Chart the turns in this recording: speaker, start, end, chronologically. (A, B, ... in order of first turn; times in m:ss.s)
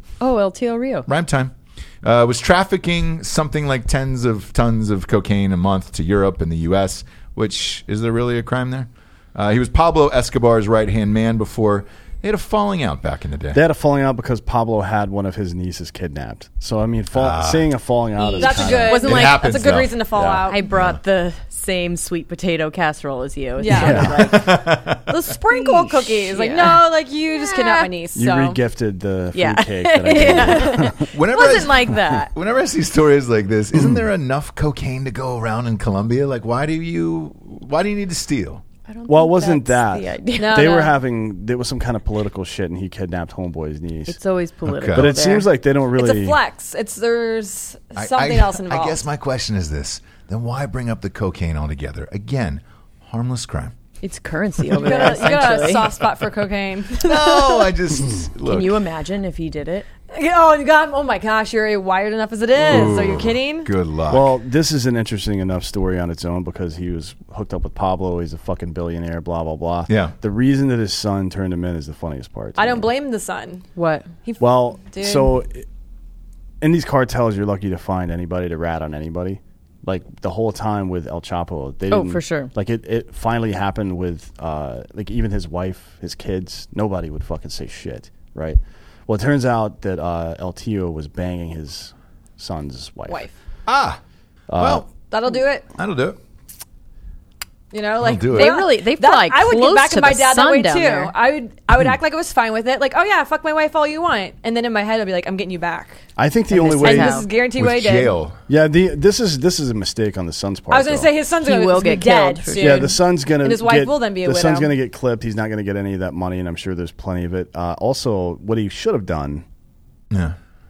0:00.2-0:01.1 A
0:01.1-0:13.6 B
0:13.5-0:19.0 C
0:17.1-0:17.7 B
0:18.2-0:19.5 A
0:18.4-0:20.6 D
0:18.7-0:20.0 B
0:20.2-0:20.5 C
0:20.5-0:24.6 A
0:20.7-0:21.0 B
0:23.6-0:24.5 D
0:23.7-0:24.2 C
0:24.2-0:25.1 B
0:25.1-0:28.6 D
0:25.5-0:27.9 A
0:28.2-0:31.1 C
0:29.3-0:32.3 A
0:31.1-0:38.6 B
0:38.9-0:40.9 A
0:39.1-0:44.2 C
0:40.4-0:41.0 D
0:44.1-0:45.5 A
0:44.7-0:45.2 B
0:44.9-0:46.4 C
0:45.9-0:49.0 D
0:48.0-0:53.7 B
0:54.0-0:56.0 A
0:54.7-0:57.7 D
0:57.0-0:58.8 B
0:58.4-0:59.9 A
1:00.1-1:03.7 D
1:02.7-1:03.0 C
1:02.7-1:04.3 B
1:04.1-1:12.9 C
1:09.9-1:10.2 B
1:12.6-1:13.6 D
1:13.8-1:14.1 A
1:14.2-1:15.3 D
1:14.4-1:15.7 C
1:16.6-1:33.2 C
1:21.9-1:22.5 A
1:33.1-1:33.4 D
1:33.7-1:34.0 B
1:34.5-1:34.9 C
1:34.6-1:34.9 B
1:35.1-1:35.7 D
1:35.8-1:36.2 B
1:37.7-1:46.0 D
1:38.0-1:38.6 B
1:38.3-1:41.1 A
1:46.2-1:47.2 C
1:46.5-1:47.3 A
1:46.8-1:48.2 D
1:47.6-1:48.4 B
1:48.5-1:51.1 C
1:50.7-1:54.7 D
1:51.4-1:53.0 A
1:52.6-1:59.4 C
2:00.1-2:00.4 B